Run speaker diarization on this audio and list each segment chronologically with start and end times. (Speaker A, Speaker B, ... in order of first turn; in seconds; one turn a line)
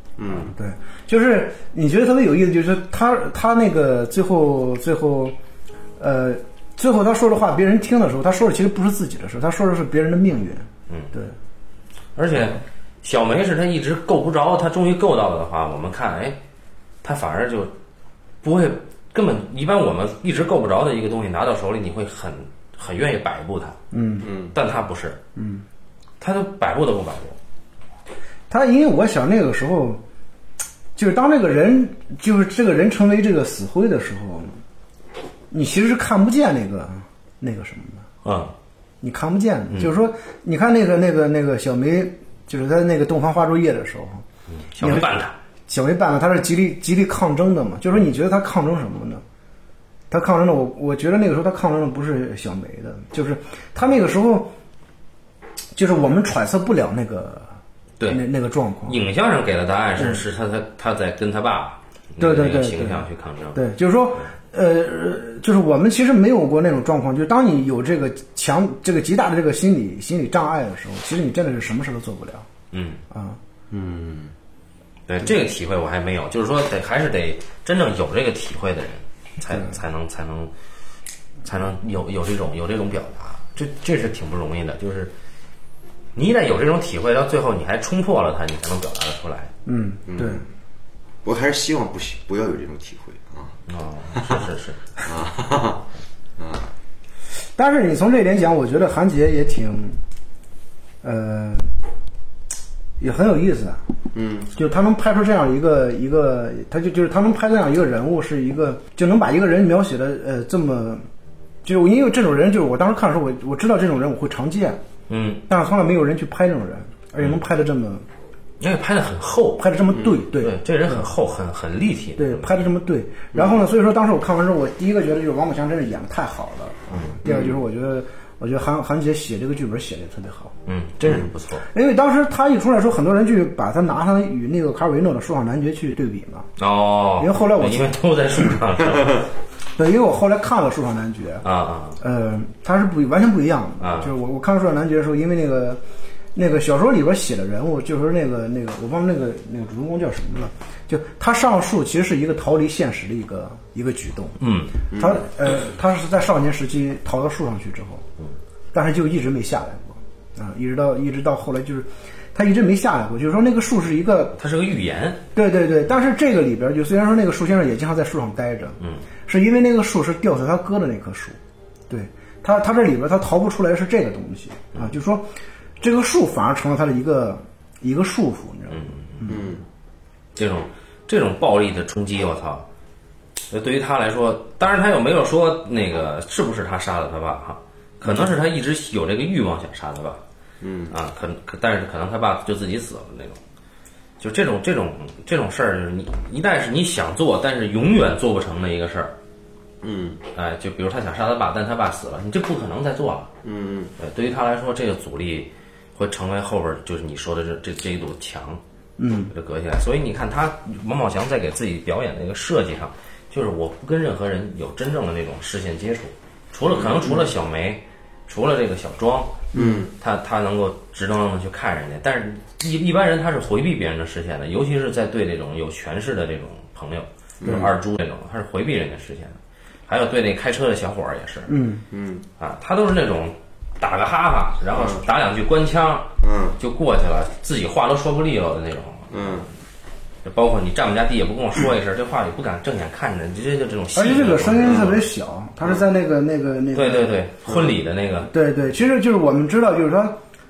Speaker A: 0.2-0.5
Speaker B: 0.5-5.3
Speaker B: 6.0-11.3
Speaker C: 12.2-16.4
Speaker C: 17.0-17.7
Speaker C: 18.4-23.8
Speaker B: 23.9-24.3
Speaker A: 24.2-24.5
Speaker C: 24.5-25.2
Speaker B: 25.4-25.6
Speaker C: 26.2-27.4
Speaker B: 28.5-30.0
Speaker B: 30.9-34.5
Speaker B: 35.5-38.0
Speaker C: 38.2-38.5
Speaker B: 39.0-44.2
Speaker C: 44.6-45.3
Speaker B: 44.8-49.2
Speaker B: 50.1-54.5
Speaker B: 55.8-57.5
Speaker B: 58.1-59.0
Speaker C: 58.9-63.7
Speaker B: 60.0-60.2
Speaker B: 62.2-72.5
Speaker C: 72.7-73.0
Speaker B: 73.1-73.4
Speaker A: 73.7-74.3
Speaker C: 75.1-80.5
Speaker C: 81.4-85.1
Speaker C: 86.1-89.5
Speaker B: 89.7-90.4
Speaker A: 90.1-90.4
Speaker A: 91.2-93.5
Speaker C: 93.7-94.8
Speaker A: 95.0-95.8
Speaker A: 96.4-96.7
Speaker B: 97.6-100.0
Speaker B: 101.0-101.7
Speaker B: 103.0-103.8
Speaker A: 104.1-104.5
Speaker B: 104.5-111.0
Speaker B: 111.6-114.8
Speaker C: 115.1-115.4
Speaker B: 115.5-118.0
Speaker C: 118.6-119.7
Speaker B: 119.6-121.1
Speaker C: 120.3-122.6
Speaker B: 122.2-130.5
Speaker A: 127.2-127.5
Speaker C: 130.7-131.7
Speaker B: 131.7-136.5
Speaker C: 136.6-139.3
Speaker B: 137.2-137.9
Speaker B: 139.8-141.4
Speaker C: 141.4-142.0
Speaker B: 142.0-145.8
Speaker C: 143.8-144.1
Speaker B: 146.3-154.4
Speaker C: 154.4-154.8
Speaker A: 154.9-155.2
Speaker B: 154.9-158.0
Speaker B: 158.7-164.4
Speaker C: 164.4-165.2
Speaker B: 165.3-171.4
Speaker B: 171.9-175.3
Speaker B: 175.8-179.4
Speaker C: 178.7-179.3
Speaker A: 179.3-179.6
Speaker C: 180.3-182.7
Speaker C: 183.5-190.2
Speaker A: 190.6-190.9
Speaker C: 190.9-193.4
Speaker C: 194.2-199.1
Speaker A: 199.8-200.2
Speaker C: 200.3-203.3
Speaker A: 203.4-203.9
Speaker C: 204.0-208.6
Speaker B: 209.0-209.3
Speaker C: 209.3-231.5
Speaker A: 216.8-217.1
Speaker A: 219.5-219.9
Speaker A: 227.4-227.7
Speaker B: 231.5-231.8
Speaker A: 231.9-232.2
Speaker C: 232.4-239.4
Speaker A: 234.7-235.0
Speaker A: 236.2-236.6
Speaker A: 239.1-239.5
Speaker C: 240.2-245.1
Speaker B: 243.9-247.1
Speaker C: 246.7-248.3
Speaker B: 248.3-250.2